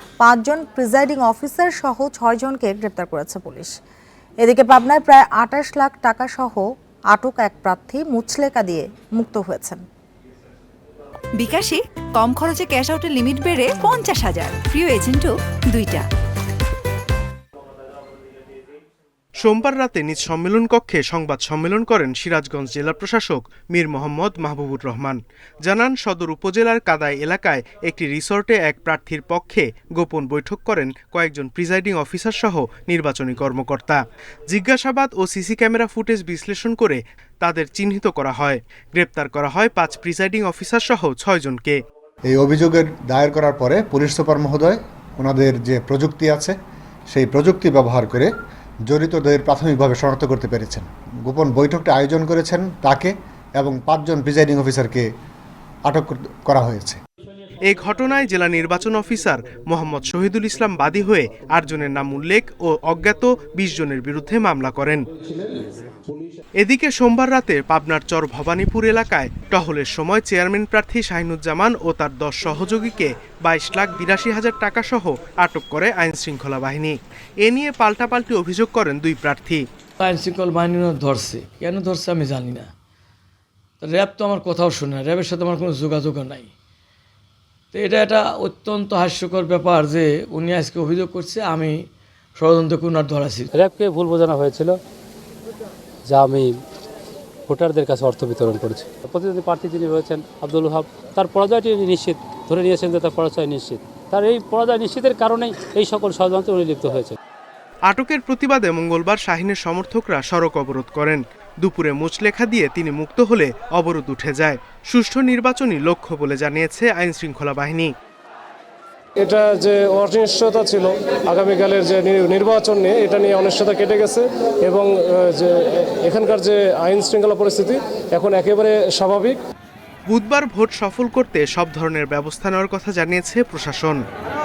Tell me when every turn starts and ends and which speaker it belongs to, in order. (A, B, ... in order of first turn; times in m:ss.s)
0:00.2-0:03.7 A
0:04.4-0:09.8 A
0:11.4-0:16.0 B
0:19.4-0:41.8 C
0:42.3-0:46.6 D
0:47.1-0:48.3 D
0:48.9-0:55.0 D
0:55.9-0:57.0 D
0:57.7-1:05.0 C
1:06.6-1:19.6 C
1:20.0-1:22.7 E
1:23.8-1:26.5 E
1:27.7-1:33.5 E
1:33.5-1:34.8 F
1:36.1-1:36.6 F
1:37.5-1:47.2 F
1:47.9-1:57.9 C
1:59.2-2:05.5 G
2:06.0-2:09.4 G
2:10.1-2:14.0 C